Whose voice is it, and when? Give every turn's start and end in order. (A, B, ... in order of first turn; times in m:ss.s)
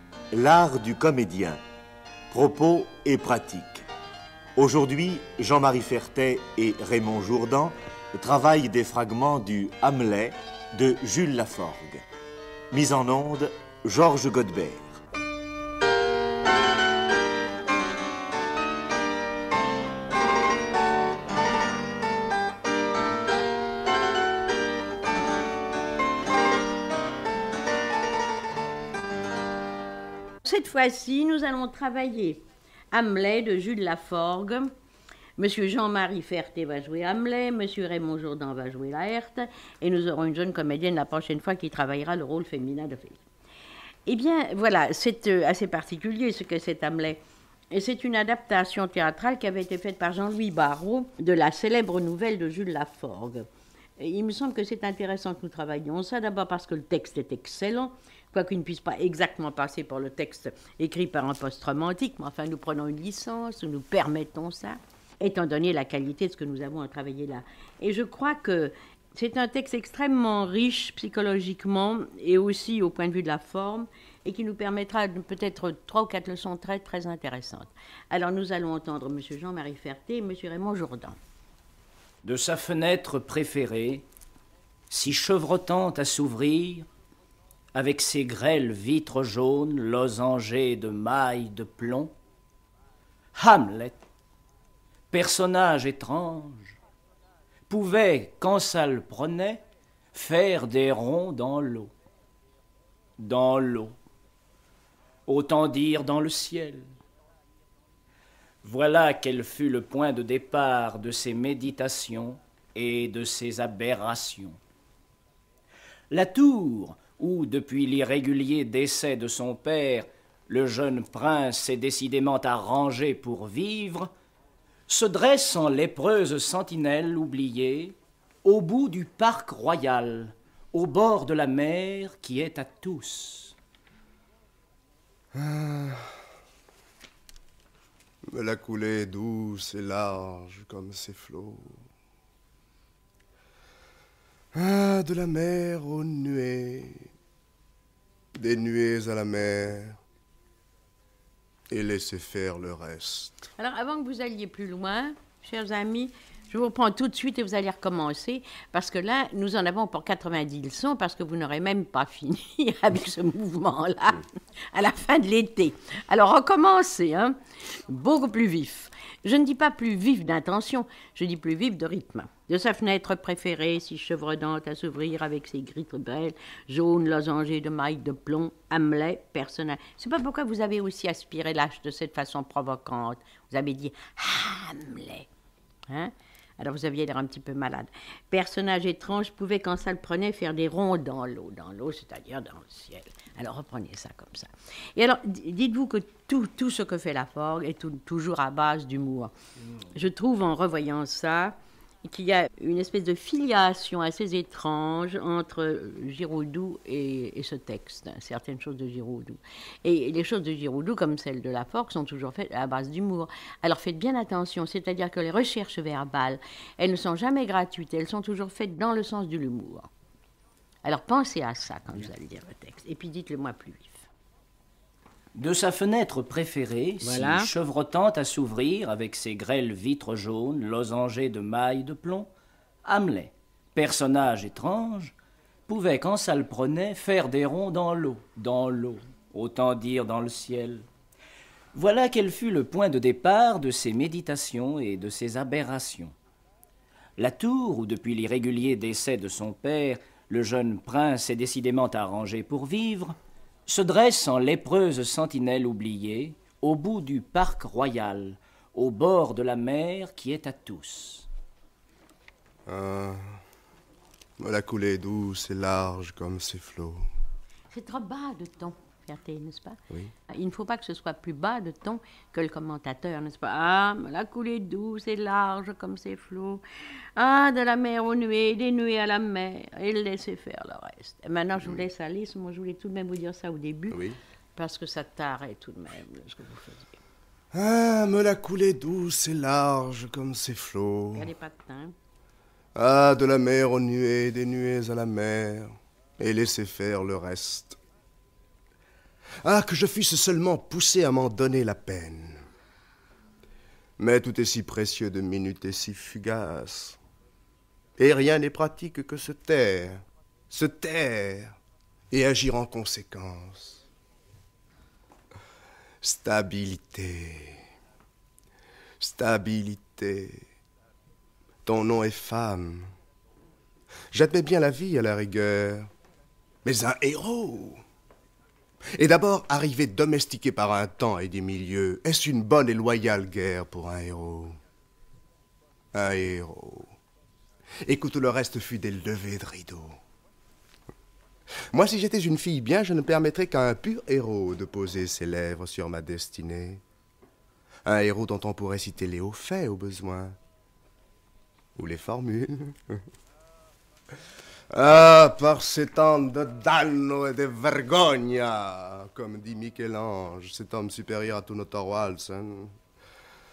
0:00.3-0:01.6 A
0:02.3-0:03.8 A
0:04.6-0:12.0 A
0:12.7-0:15.0 A
0:30.4-0:34.7 B
0:35.4-0:43.2 B
0:44.0-0:47.2 B
0:47.7-0:53.5 B
0:54.0-1:21.2 B
1:22.2-1:24.0 C
1:24.9-1:26.8 C
1:27.7-1:32.1 C
1:33.4-1:34.0 C
1:35.1-1:36.8 C
1:37.7-1:39.6 C
1:40.1-1:41.9 C
1:43.2-1:43.9 C
1:45.3-1:46.9 C
1:48.6-1:54.6 C
1:56.1-2:04.1 C
2:04.9-2:13.5 C
2:15.3-2:16.1 D
2:18.3-2:21.8 D
2:24.5-2:27.1 D
2:28.4-2:30.0 D
2:31.7-2:33.4 D
2:33.6-3:05.3 B
3:05.9-3:19.3 B
3:19.9-3:39.9 B
3:40.8-3:44.1 B
3:45.3-3:52.3 C
3:47.0-3:47.5 B
3:52.8-3:55.1 C
3:55.7-4:00.8 C
4:01.7-4:06.1 C
4:07.2-4:13.2 C
4:13.7-4:21.3 C
4:22.7-4:23.4 D
4:24.4-4:27.0 D
4:27.7-4:36.6 B
4:37.2-4:44.0 B
4:43.9-4:44.2 D
4:44.6-4:47.0 B
4:47.5-4:51.3 D
4:51.1-4:51.9 B
4:52.8-4:57.8 D
4:59.4-5:02.4 D
5:04.0-5:07.0 D
5:08.0-5:11.6 D
5:12.1-5:13.8 D
5:16.0-5:17.6 D
5:19.0-5:20.4 D
5:21.6-5:22.9 D
5:24.1-5:25.9 D
5:26.6-5:27.8 D
5:28.9-5:34.6 D
5:35.9-5:36.9 D
5:37.8-5:40.0 D
5:41.7-5:46.8 D
5:47.9-5:50.4 D
5:51.8-5:53.0 D
5:54.7-6:02.7 D